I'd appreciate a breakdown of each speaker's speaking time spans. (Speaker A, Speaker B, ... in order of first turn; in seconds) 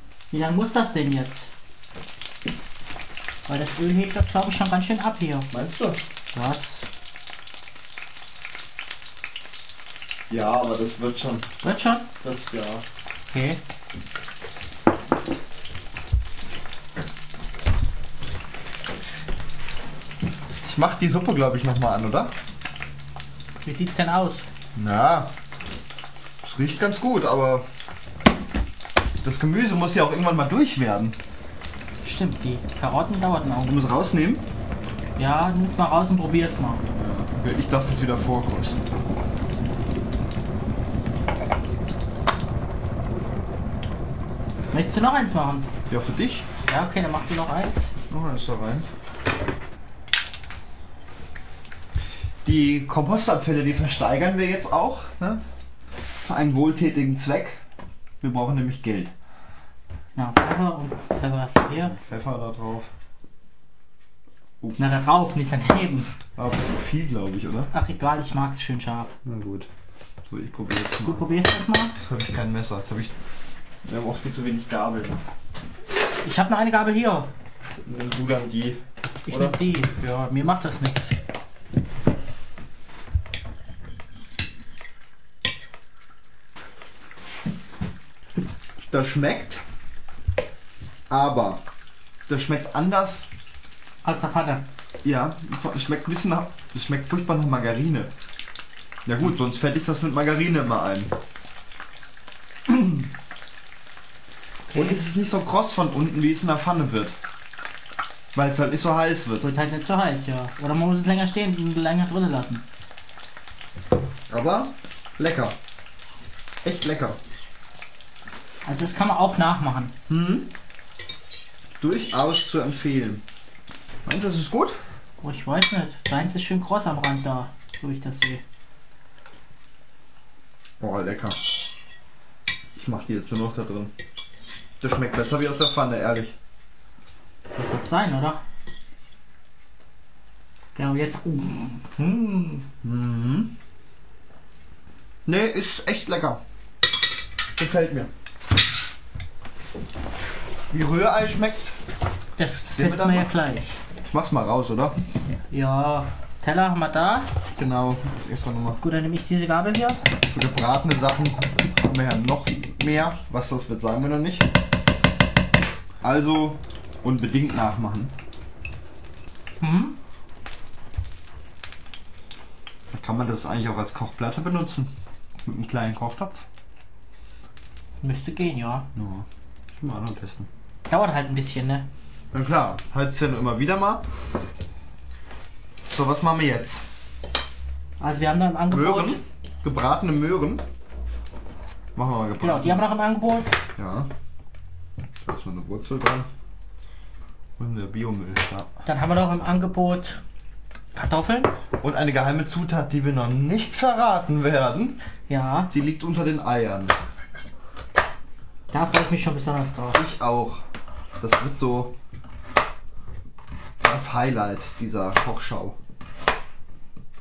Speaker A: 0.3-1.5, 3.5-5.5, 6.3-6.9, 11.6-12.1, 13.3-13.6, 23.6-24.4, 32.0-33.8, 35.2-36.8, 44.7-45.7, 46.7-47.9, 60.1-62.0, 64.8-66.1, 67.7-69.1, 71.0-72.0, 76.2-77.3, 79.2-81.2, 94.0-94.6, 102.7-103.0, 104.7-105.0, 109.4-112.6, 118.6-119.9, 125.2-128.4, 137.6-138.4, 140.7-142.7, 152.4-153.8, 155.5-157.3, 158.8-160.0, 169.6-170.0, 178.0-178.9, 180.9-181.8, 188.0-189.2, 192.4-193.5, 198.8-200.2, 200.9-201.5, 205.3-205.7, 208.7-210.0
Speaker B: 5.5-6.0, 10.3-11.5, 12.2-12.8, 20.6-22.3, 24.8-25.3, 26.4-27.6, 29.2-31.2, 33.6-34.5, 37.0-38.8, 45.9-46.5, 48.1-48.9, 52.4-55.4, 56.2-57.6, 58.2-59.1, 61.7-62.9, 66.4-67.7, 69.2-69.7, 70.3-71.4, 71.9-73.1, 73.8-75.2, 77.8-79.7, 88.9-89.6, 91.1-91.6, 92.3-93.3, 95.0-98.1, 99.0-101.1, 104.7-107.2, 108.3-109.5, 114.3-115.6, 116.6-117.2, 120.1-120.5, 121.8-123.2, 124.0-124.8, 130.8-131.4, 132.7-133.9, 134.8-136.3, 142.8-143.5, 145.2-146.4, 147.6-148.1, 150.7-151.8, 152.6-153.3, 154.1-155.0, 157.6-158.8, 160.3-164.5, 166.0-168.1, 172.9-174.9, 175.4-176.4, 178.9-180.5, 182.3-184.0, 185.9-186.8, 188.7-190.6, 191.9-192.8, 193.8-194.1, 195.2-196.3, 197.6-198.7, 201.8-205.0, 205.7-206.9, 209.9-210.6, 211.2-211.9, 213.8-215.8